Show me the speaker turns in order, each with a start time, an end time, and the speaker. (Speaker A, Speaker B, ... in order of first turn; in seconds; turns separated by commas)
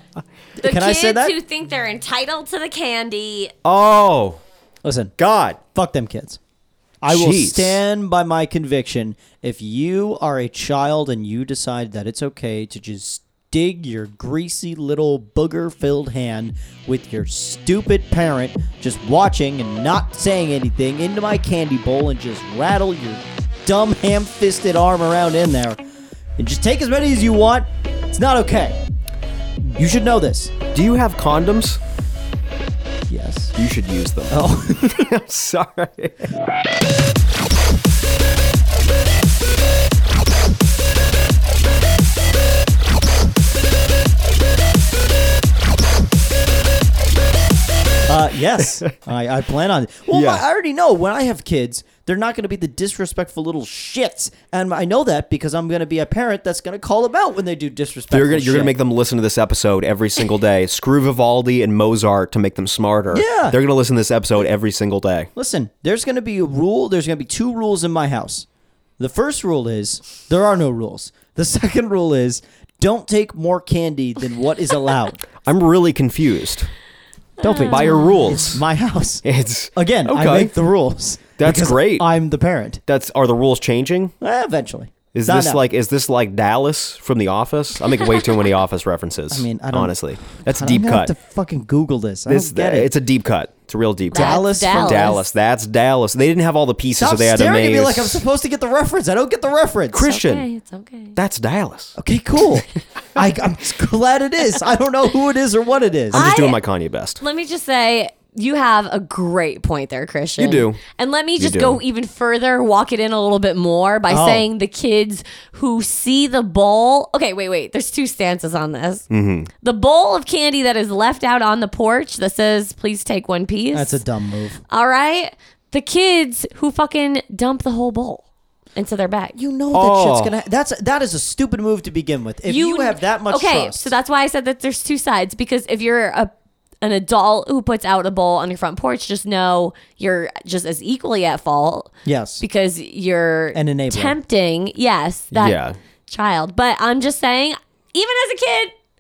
Speaker A: 0.6-1.4, Speaker B: 0.6-3.5, Speaker C: 3.6-4.4, Speaker A: 4.8-5.1, Speaker C: 5.2-5.6, Speaker A: 5.7-6.4, Speaker A: 7.0-25.8, Speaker C: 7.1-7.8, Speaker A: 26.4-28.8, Speaker A: 29.7-30.5, Speaker C: 30.7-31.8, Speaker A: 33.1-33.5, Speaker C: 33.5-34.4, Speaker A: 34.3-35.1, Speaker C: 34.9-36.3, Speaker A: 48.1-58.8, Speaker C: 50.1-50.4, Speaker C: 58.1-65.3, Speaker A: 63.1-63.6, Speaker A: 65.3-68.5, Speaker A: 69.0-75.2, Speaker C: 75.3-76.7, Speaker A: 77.4-82.8, Speaker B: 77.4-78.5, Speaker C: 77.6-78.6, Speaker C: 79.2-80.5, Speaker C: 81.4-82.1, Speaker C: 82.9-84.1, Speaker A: 84.2-85.6, Speaker C: 85.1-91.1, Speaker A: 89.3-92.9, Speaker C: 92.3-98.2, Speaker A: 94.1-95.2, Speaker B: 94.1-95.2, Speaker A: 97.0-100.1, Speaker C: 99.9-100.5, Speaker B: 100.0-101.2, Speaker C: 101.2-102.0, Speaker A: 102.0-106.2, Speaker C: 106.1-107.2, Speaker B: 106.1-106.6, Speaker B: 107.2-119.1, Speaker C: 110.4-110.8, Speaker C: 111.4-111.8, Speaker A: 114.1-114.4, Speaker C: 119.1-119.5, Speaker B: 119.6-124.0, Speaker A: 123.7-124.6, Speaker B: 124.7-128.2, Speaker B: 128.7-129.3, Speaker A: 129.3-133.9, Speaker C: 129.7-130.3, Speaker B: 132.4-148.7, Speaker A: 142.0-142.4, Speaker A: 143.5-144.2, Speaker C: 145.3-145.8